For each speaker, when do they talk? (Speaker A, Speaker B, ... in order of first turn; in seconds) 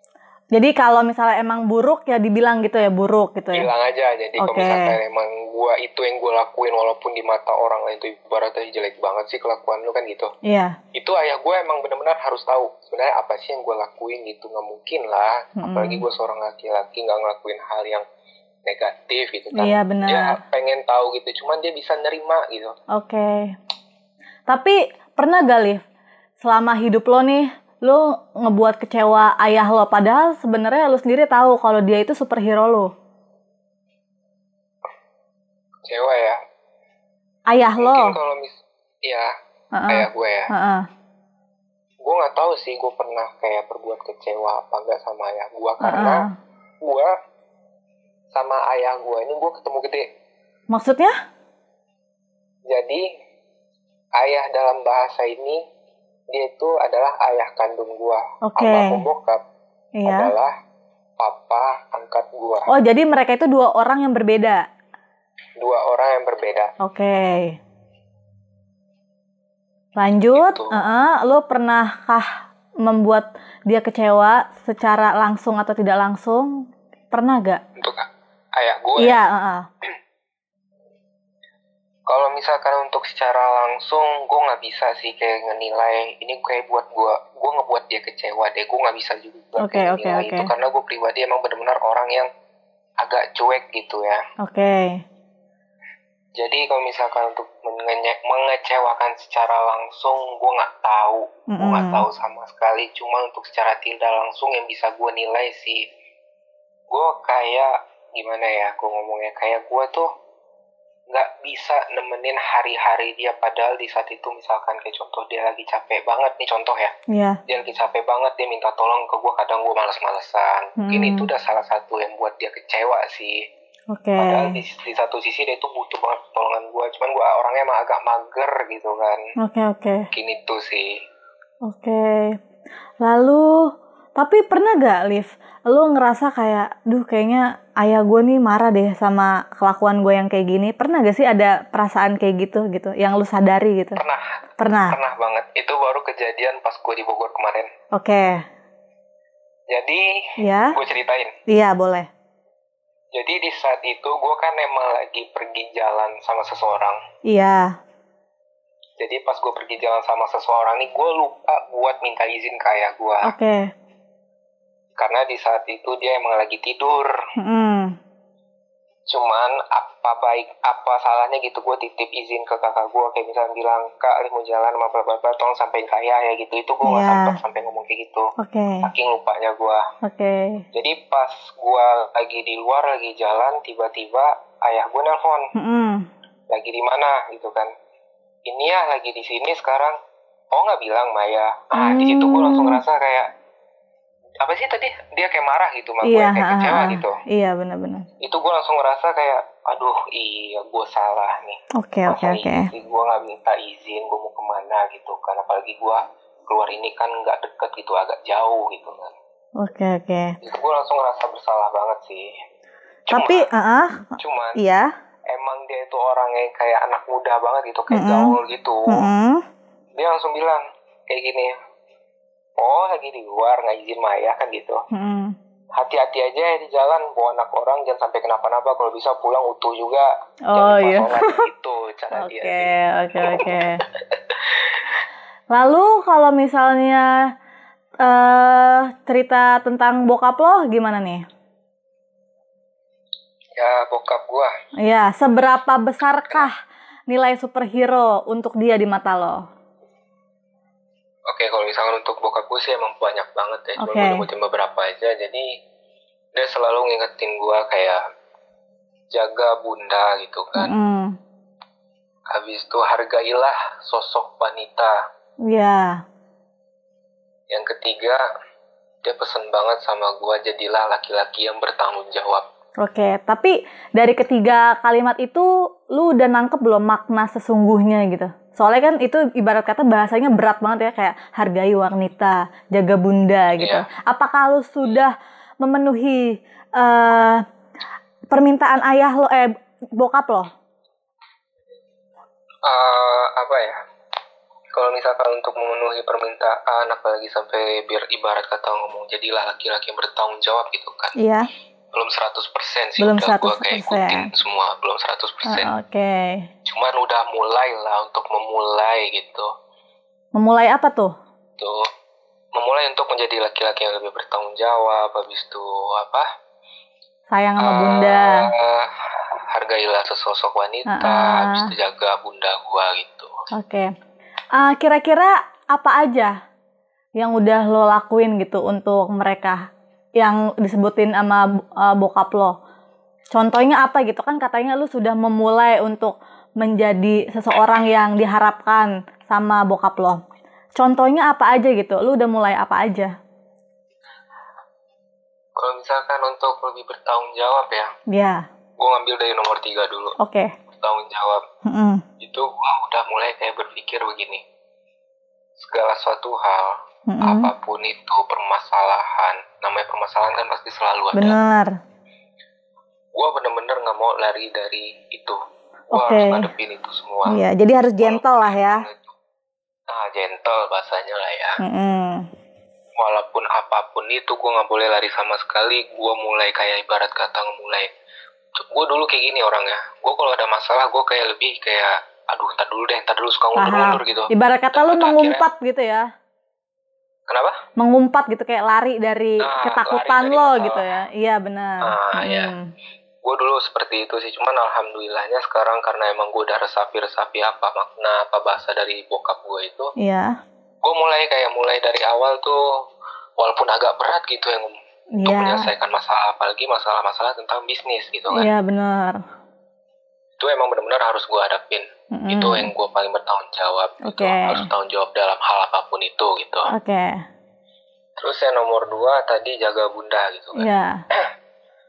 Speaker A: 0.5-3.7, 4.4-5.0, 10.5-10.8, 15.6-16.0, 19.6-20.4, 22.9-23.6, 24.5-25.8, 26.4-32.9, 37.5-38.2, 39.7-40.9, 45.8-46.3, 50.7-51.1, 58.5-59.0, 60.0-60.3, 62.7-64.7, 66.8-67.6, 70.0-77.6, 79.0-79.7, 89.6-90.5, 94.4-95.0, 101.5-102.0, 117.1-117.4, 120.8-121.3, 123.9-124.5, 129.4-130.1, 131.7-132.4, 133.0-144.0, 144.6-145.0, 147.9-148.4, 150.4-150.8, 151.5-152.1, 157.3-157.8, 163.2-163.7, 167.4-168.0, 176.8-177.4, 178.4-178.9, 180.0-180.6, 185.6-186.1, 191.8-192.8, 196.0-198.1, 201.8-202.7, 209.6-210.4, 213.1-214.9, 217.9-219.4, 224.9-225.3, 230.5-231.4, 232.2-233.8, 235.5-237.1, 238.0-241.3, 244.8-246.6, 247.1-249.5, 253.8-254.2, 260.6-261.2, 265.5-266.0, 272.8-287.4, 288.3-290.5, 301.2-301.5, 303.0-304.3, 305.5-306.5, 310.4-311.1, 317.3-318.5, 320.9-321.7, 323.5-323.9, 324.6-326.4, 327.2-329.7, 330.2-332.6, 333.3-340.2, 340.8-343.1, 348.1-348.4, 350.2-350.5, 351.7-352.0, 357.1-357.5, 361.1-361.8, 365.9-366.5, 367.3-368.9, 371.6-372.3, 383.6-386.1, 387.8-392.6, 400.0-400.4, 405.2-405.7, 408.3-409.2, 412.1-412.7, 414.0-414.7, 416.7-417.2, 420.6-421.0
Speaker B: 3.5-10.3, 10.9-18.1, 18.7-22.7, 35.9-36.4, 37.8-39.3, 39.9-40.5, 42.0-46.2, 46.8-47.1, 48.3-50.1, 52.7-53.0, 54.2-55.6, 56.3-59.4, 60.1-60.5, 61.2-62.7, 65.6-66.7, 70.3-70.8, 77.8-79.2, 82.1-92.3, 93.0-94.2, 96.4-105.8, 106.9-110.1, 111.1-116.9, 117.5-123.4, 124.2-129.2, 130.1-130.9, 144.0-144.2, 144.9-147.7, 149.7-150.1, 150.7-151.3, 153.1-157.0, 159.0-163.3, 165.0-167.1, 169.1-178.3, 178.8-179.8, 180.7-185.5, 186.5-187.7, 188.5-189.9, 190.5-193.3, 194.4-197.2, 198.2-209.1, 210.4-212.3, 213.1-213.5, 214.2-214.6, 215.3-219.1, 220.0-221.5, 222.6-224.8, 225.8-234.8, 243.6-244.5, 251.3-255.5, 256.4-258.0, 259.1-260.7, 262.3-264.9, 267.5-268.2, 269.0-272.4, 283.6-283.9, 292.6-293.8, 294.7-301.2, 301.9-305.7, 306.7-309.5, 311.6-311.9, 312.6-316.3, 317.6-318.9, 319.5-323.3, 345.6-347.9, 348.8-350.1, 350.7-351.4, 352.2-354.4, 355.6-361.4, 363.1-365.4, 365.9-367.4, 368.0-369.1, 369.9-371.6, 373.0-377.9, 378.6-385.4, 387.3-387.6, 389.4-390.9, 391.8-392.5, 393.2-399.9, 400.8-402.6, 403.4-408.5, 410.4-416.7, 418.2-421.3